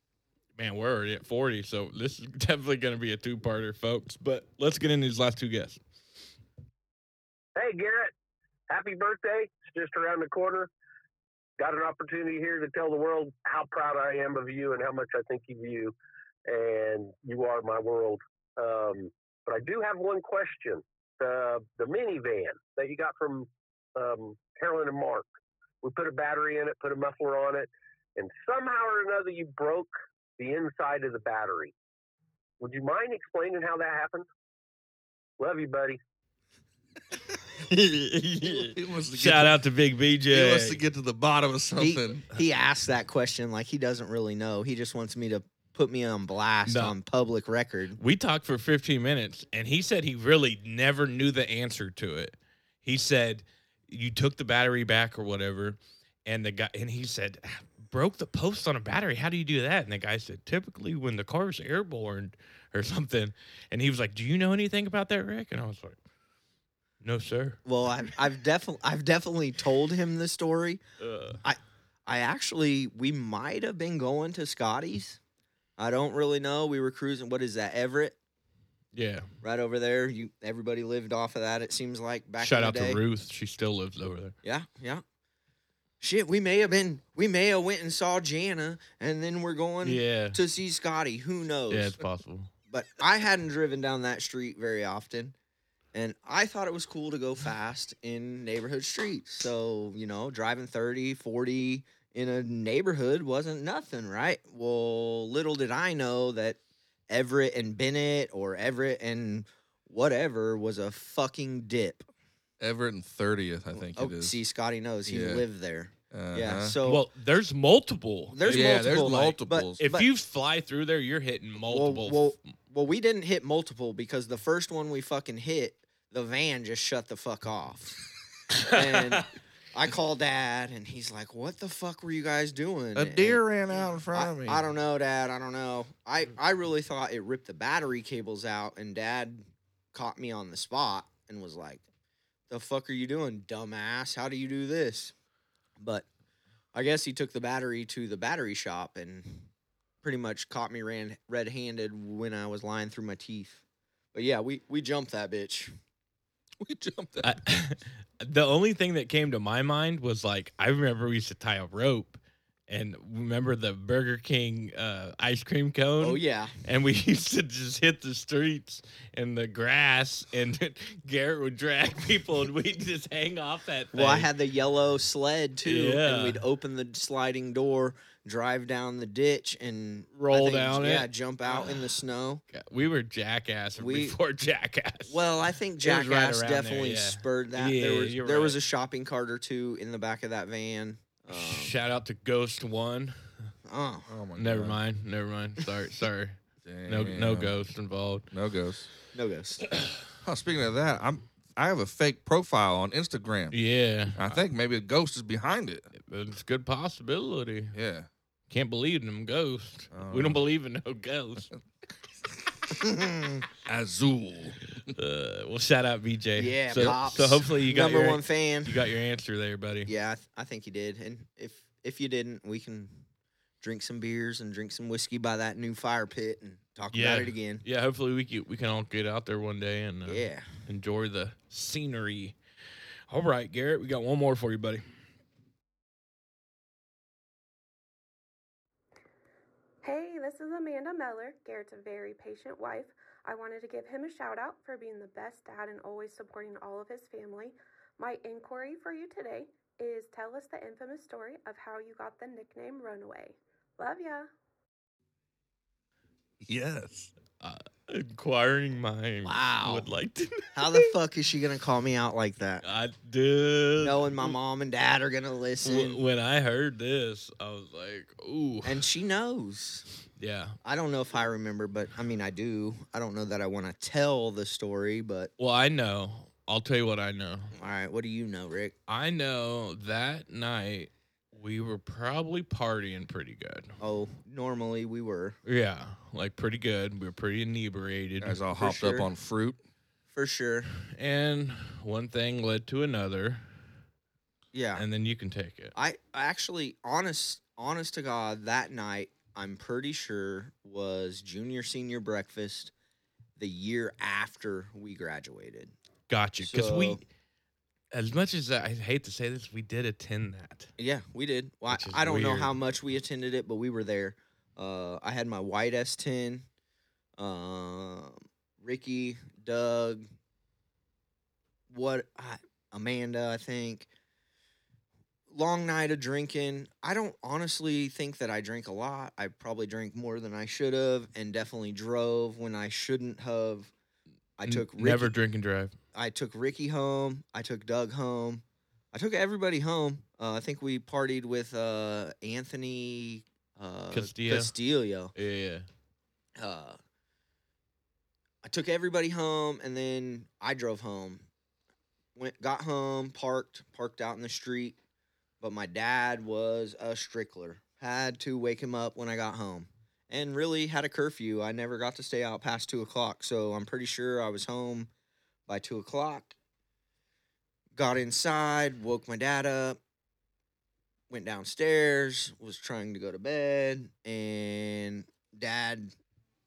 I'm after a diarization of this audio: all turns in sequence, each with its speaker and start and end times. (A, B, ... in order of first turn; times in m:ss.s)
0:00.6-0:05.8 A
0:07.6-0:08.1 B
0:08.7-0:10.7 B
0:11.6-0:15.9 B
0:16.4-0:25.3 B
0:25.8-0:31.7 B
0:32.6-0:34.3 B
0:35.4-0:36.0 B
0:37.7-0:40.8 A
0:38.4-0:39.6 C
0:40.3-0:42.3 C
0:41.8-0:48.0 D
0:46.6-0:46.9 A
0:48.0-1:06.0 A
1:07.0-1:07.6 A
1:07.6-1:10.8 D
1:11.0-1:11.4 A
1:11.4-1:15.2 D
1:15.8-1:18.2 D
1:18.9-1:19.3 A
1:19.4-1:23.0 D
1:22.4-1:24.3 A
1:24.4-1:25.0 D
1:26.0-1:32.0 D
1:29.8-1:30.4 A
1:31.7-1:32.5 A
1:32.7-1:35.3 D
1:35.9-1:52.1 D
1:52.6-1:54.4 C
1:53.7-1:57.0 D
1:55.0-1:55.4 C
1:56.1-1:56.8 C
1:56.8-2:02.4 A
1:58.3-2:00.1 D
1:58.4-1:59.8 C
2:01.6-2:08.0 D
2:08.5-2:09.2 A
2:08.6-2:13.4 D
2:12.9-2:14.6 C
2:14.1-2:21.8 D
2:22.5-2:25.1 D
2:25.8-2:26.0 D
2:26.7-2:29.5 D
2:30.0-2:33.6 D
2:34.1-2:35.7 D
2:36.6-2:37.4 C
2:37.2-2:54.3 A
2:46.0-2:46.5 D
2:53.9-3:02.4 D
2:55.6-2:56.4 A
3:00.1-3:01.9 A
3:02.5-3:05.2 A
3:03.8-3:04.2 D
3:05.1-3:11.8 D
3:05.8-3:08.6 A
3:11.3-3:13.5 A
3:13.7-3:14.1 D
3:14.1-3:14.8 C
3:14.4-3:18.3 A
3:16.6-3:17.5 C
3:18.3-3:18.9 C
3:19.1-3:19.7 D
3:20.2-3:23.6 C
3:23.5-3:24.4 A
3:24.2-3:25.9 C
3:25.9-3:27.7 A
3:27.7-3:28.1 C
3:28.5-3:31.5 A
3:29.9-3:30.4 C
3:32.3-3:32.6 C
3:32.8-3:33.4 D
3:33.6-3:34.9 C
3:34.9-3:39.9 A
3:36.4-3:38.8 D
3:39.8-3:43.0 D
3:43.6-3:47.6 D
3:46.9-3:52.4 A
3:50.0-3:50.5 D
3:53.1-3:54.8 A
3:59.8-4:14.3 E
4:16.4-4:17.1 C
4:17.4-4:20.9 A
4:19.2-4:19.9 D
4:20.5-4:22.6 D
4:22.6-4:24.4 A
4:23.8-4:26.0 D
4:25.6-4:28.8 A
4:28.6-4:29.8 D
4:30.2-4:30.6 A
4:30.6-4:35.3 D
4:35.4-4:37.5 A
4:37.6-4:38.7 D
4:38.9-4:43.7 A
4:43.8-4:45.4 D
4:45.4-4:48.4 A
4:48.2-4:49.6 C
4:48.6-4:49.1 D
4:50.1-4:50.7 D
4:50.9-4:53.4 A
4:54.5-4:54.8 D
4:54.7-4:55.7 A
4:55.8-5:02.7 D
5:03.4-5:05.7 D
5:06.1-5:07.0 A
5:06.4-5:07.0 D
5:07.9-5:10.7 A
5:10.8-5:16.4 D
5:11.7-5:12.5 A
5:17.2-5:20.0 D
5:21.7-5:23.9 D
5:25.3-5:33.7 D
5:34.4-5:35.1 D
5:34.4-5:35.7 A
5:35.9-5:45.1 D
5:43.9-5:44.5 A
5:45.1-5:45.7 A
5:46.4-5:46.8 D
5:48.4-5:51.2 D
5:52.2-5:54.8 D
5:55.4-6:04.9 D
6:05.5-6:06.3 D
6:07.7-6:09.8 D
6:11.1-6:15.9 D